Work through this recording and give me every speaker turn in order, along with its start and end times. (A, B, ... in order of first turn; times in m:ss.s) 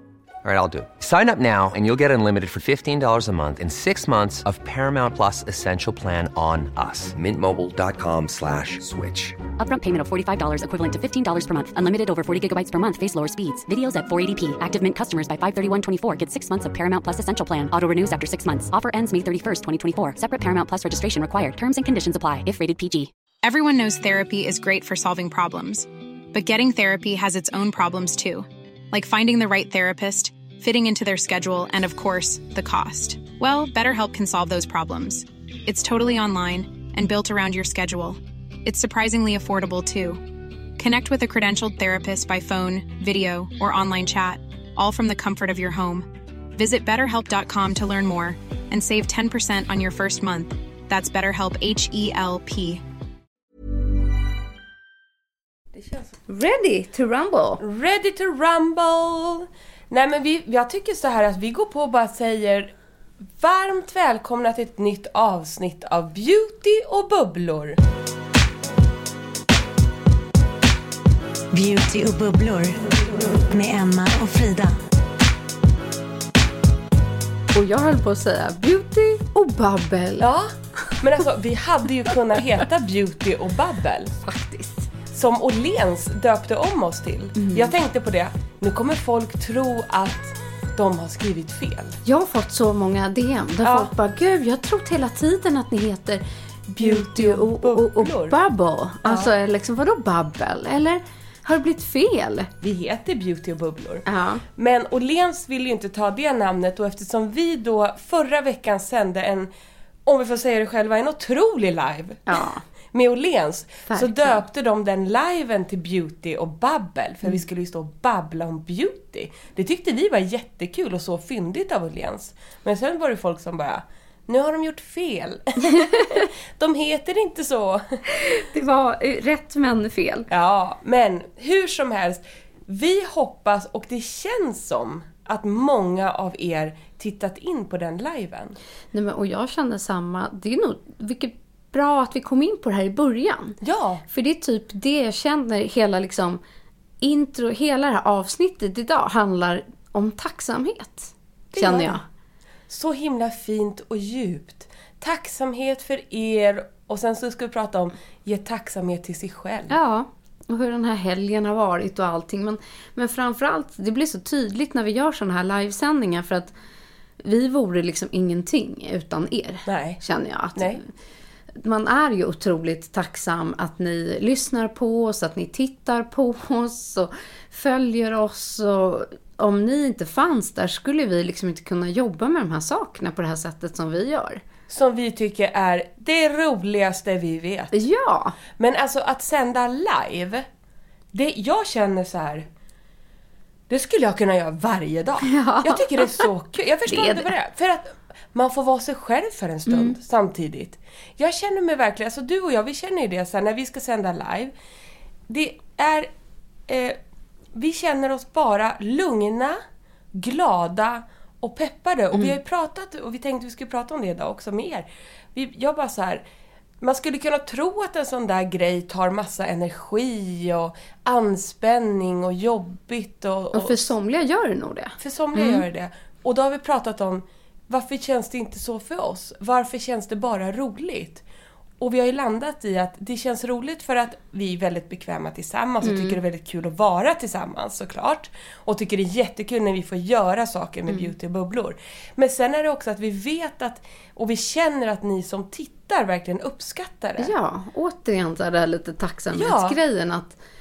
0:00.4-0:09.4 A
0:09.6-0:23.1 B
0:23.4-0:40.2 C
0:40.8-0:52.8 C
0:55.8-0:56.1 D
0:56.3-0:57.6 E
0:57.6-1:02.7 D
1:03.4-1:07.8 D
1:11.5-1:14.8 F
1:17.5-1:20.3 E
1:20.2-1:24.2 D
1:24.2-1:24.9 E
1:25.1-1:32.0 D
1:27.4-1:27.8 E
1:32.0-1:42.5 E
1:33.6-1:33.9 D
1:36.8-1:38.4 D
1:39.0-1:39.3 D
1:42.6-1:44.0 D
1:44.1-1:44.4 E
1:44.6-1:49.5 D
1:50.1-2:07.8 D
1:52.3-1:52.6 E
1:53.9-1:54.4 E
2:05.7-2:06.3 E
2:08.1-2:10.3 E
2:10.3-2:18.6 D
2:18.9-2:23.6 E
2:23.6-2:24.0 D
2:24.1-2:26.4 E
2:27.0-2:32.0 E
2:31.5-2:32.0 D
2:32.7-2:39.8 D
2:39.7-2:46.5 E
2:47.2-2:50.9 E
2:49.7-2:50.0 D
2:51.6-3:04.4 E
3:04.7-3:07.7 D
3:07.7-3:08.4 E
3:08.6-3:10.5 D
3:11.1-3:12.5 D
3:13.7-3:24.5 D
3:15.3-3:16.3 E
3:16.9-3:17.3 E
3:19.7-3:20.0 E
3:25.3-3:26.1 D
3:26.7-3:27.0 D
3:27.5-3:29.6 D
3:30.1-3:36.2 D
3:36.8-3:43.9 D
3:43.5-3:45.6 E
3:45.0-3:51.2 D
3:51.8-4:07.3 D
3:55.8-3:56.2 E
4:07.2-4:10.4 E
4:09.3-4:09.8 D